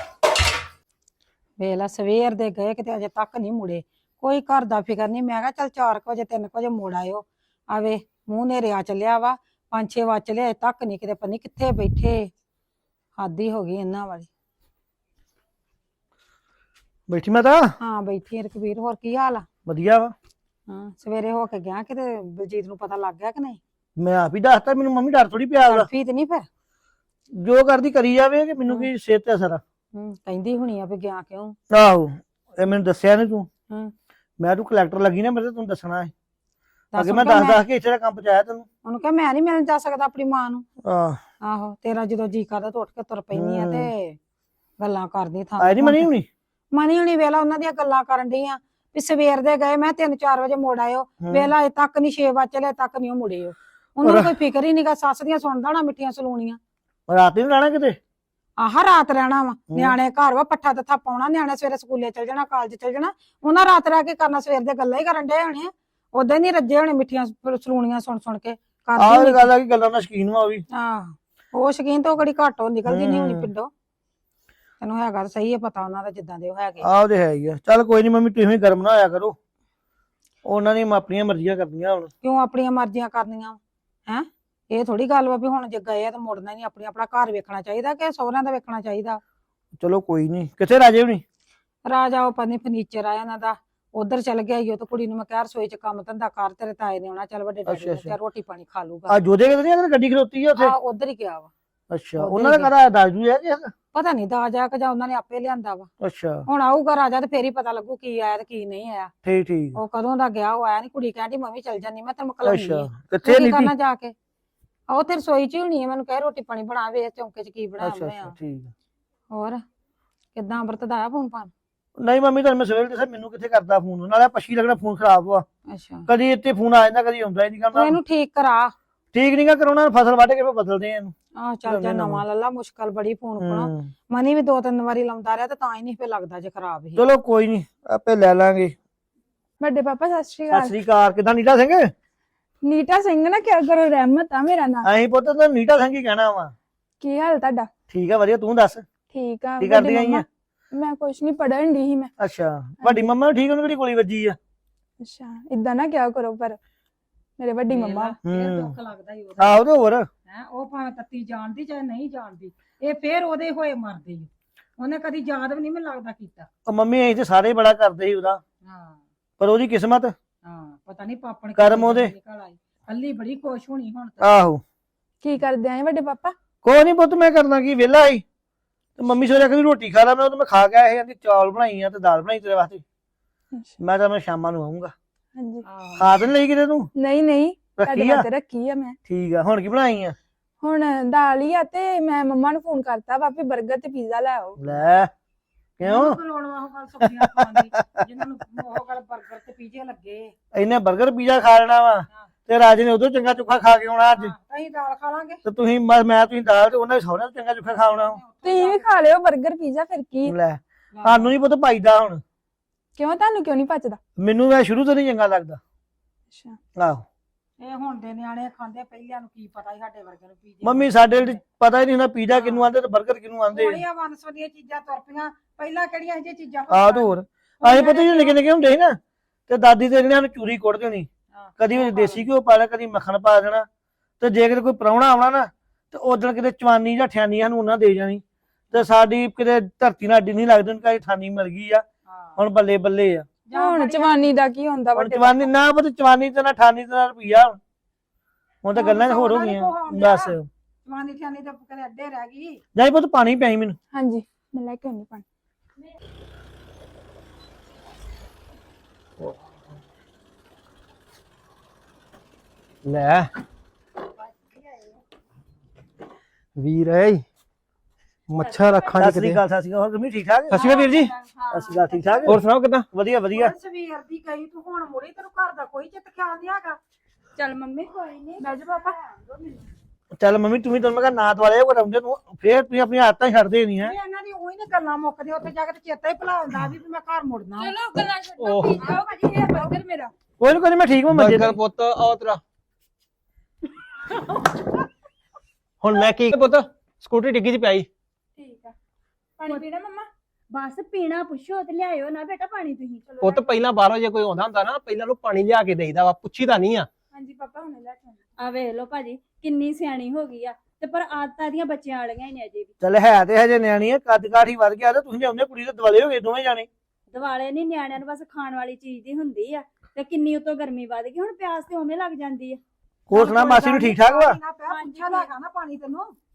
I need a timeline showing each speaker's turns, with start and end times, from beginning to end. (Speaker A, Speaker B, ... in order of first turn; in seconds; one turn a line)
Speaker A: 1.6-12.3
Speaker A: 13.2-14.3
Speaker B: 17.1-17.7
Speaker A: 17.8-19.5
Speaker B: 19.6-20.1
Speaker A: 20.7-23.6
Speaker B: 24.0-25.9
Speaker A: 25.6-26.5
Speaker B: 27.3-29.6
Speaker A: 29.9-31.6
Speaker B: 31.7-33.5
Speaker B: 34.4-36.1
Speaker A: 36.9-37.6
Speaker B: 37.0-38.6
Speaker A: 38.8-40.6
Speaker B: 40.8-41.2
Speaker A: 41.4-44.2
Speaker B: 43.3-43.9
Speaker A: 44.8-46.1
Speaker B: 45.6-46.3
Speaker A: 46.7-56.6
Speaker B: 51.2-51.5
Speaker B: 54.0-54.3
Speaker B: 57.1-58.0
Speaker A: 58.6-69.5
Speaker B: 69.0-70.6
Speaker A: 70.7-73.7
Speaker B: 72.8-73.5
Speaker A: 74.8-76.8
Speaker B: 76.8-79.3
Speaker B: 80.4-82.1
Speaker A: 82.2-89.2
Speaker B: 89.8-91.2
Speaker A: 91.8-99.2
Speaker B: 97.7-98.1
Speaker B: 99.1-100.7
Speaker A: 100.5-101.5
Speaker B: 101.9-103.7
Speaker A: 102.2-102.7
Speaker A: 103.9-105.9
Speaker B: 106.0-106.5
Speaker A: 106.5-109.1
Speaker B: 109.2-109.8
Speaker A: 109.8-114.1
Speaker B: 112.4-113.7
Speaker A: 114.9-118.3
Speaker B: 117.8-118.7
Speaker A: 119.3-119.6
Speaker A: 120.3-121.5
Speaker B: 122.0-125.4
Speaker A: 125.7-126.1
Speaker B: 126.1-128.0
Speaker A: 127.7-128.7
Speaker B: 129.1-131.1
Speaker A: 131.3-137.0
Speaker B: 131.6-132.2
Speaker B: 133.4-133.9
Speaker B: 137.0-138.8
Speaker C: 139.6-140.7
Speaker B: 140.5-141.9
Speaker C: 142.6-144.8
Speaker B: 144.8-146.5
Speaker C: 147.0-147.7
Speaker B: 147.9-148.8
Speaker C: 149.1-152.1
Speaker B: 149.6-150.2
Speaker B: 152.2-154.4
Speaker C: 152.8-153.1
Speaker C: 155.0-156.6
Speaker C: 157.4-158.2
Speaker A: 157.7-159.6
Speaker B: 158.2-158.7
Speaker B: 159.4-160.1
Speaker A: 160.3-166.5
Speaker B: 166.7-168.4
Speaker A: 168.6-169.0
Speaker B: 169.4-170.1
Speaker A: 170.4-174.2
Speaker B: 171.6-172.1
Speaker B: 174.2-174.6
Speaker C: 175.2-176.3
Speaker B: 176.6-178.2
Speaker B: 179.0-182.8
Speaker B: 183.8-184.9
Speaker C: 185.3-185.6
Speaker A: 185.7-186.2
Speaker B: 185.9-186.9
Speaker C: 186.9-188.9
Speaker B: 187.8-188.2
Speaker B: 189.0-190.1
Speaker C: 190.6-194.6
Speaker B: 194.6-195.1
Speaker B: 195.8-196.2
Speaker A: 195.8-200.3
Speaker B: 197.0-197.6
Speaker B: 200.5-204.3
Speaker A: 204.1-205.4
Speaker B: 205.4-208.2
Speaker A: 207.7-208.9
Speaker C: 208.4-210.3
Speaker B: 210.3-212.2
Speaker A: 210.9-211.3
Speaker C: 212.9-214.0
Speaker B: 214.2-215.6
Speaker C: 216.3-216.6
Speaker B: 216.8-217.0
Speaker A: 217.6-221.4
Speaker B: 220.6-223.8
Speaker A: 222.3-222.7
Speaker A: 223.5-228.4
Speaker B: 226.7-231.1
Speaker A: 231.3-232.3
Speaker B: 231.6-233.7
Speaker B: 234.2-241.8
Speaker A: 242.1-242.4
Speaker B: 242.4-243.3
Speaker A: 243.5-244.2
Speaker C: 243.5-245.5
Speaker B: 244.9-247.6
Speaker B: 248.6-250.5
Speaker A: 248.7-252.6
Speaker B: 252.7-253.8
Speaker C: 253.9-255.2
Speaker D: 262.8-263.3
Speaker A: 264.1-265.0
Speaker D: 266.6-267.2
Speaker D: 268.3-269.4
Speaker E: 268.4-269.0
Speaker B: 269.0-270.6
Speaker D: 270.5-271.1
Speaker E: 270.6-272.3
Speaker A: 270.8-271.1
Speaker B: 271.5-272.4
Speaker D: 272.2-272.9
Speaker B: 272.9-273.5
Speaker A: 273.3-276.8
Speaker E: 277.4-279.7
Speaker C: 278.4-278.9
Speaker B: 280.1-283.9
Speaker A: 283.8-287.8
Speaker C: 287.6-290.1
Speaker D: 288.4-288.9
Speaker A: 288.8-289.7
Speaker B: 290.4-291.6
Speaker D: 291.1-292.4
Speaker D: 295.8-297.9
Speaker C: 298.4-298.7
Speaker C: 299.4-300.1
Speaker E: 300.5-303.0
Speaker C: 303.1-303.5
Speaker D: 303.2-306.9
Speaker C: 307.1-308.2
Speaker E: 308.4-312.7
Speaker B: 312.8-316.7
Speaker E: 317.1-322.6
Speaker B: 323.1-324.4
Speaker A: 323.1-326.1
Speaker E: 324.7-325.3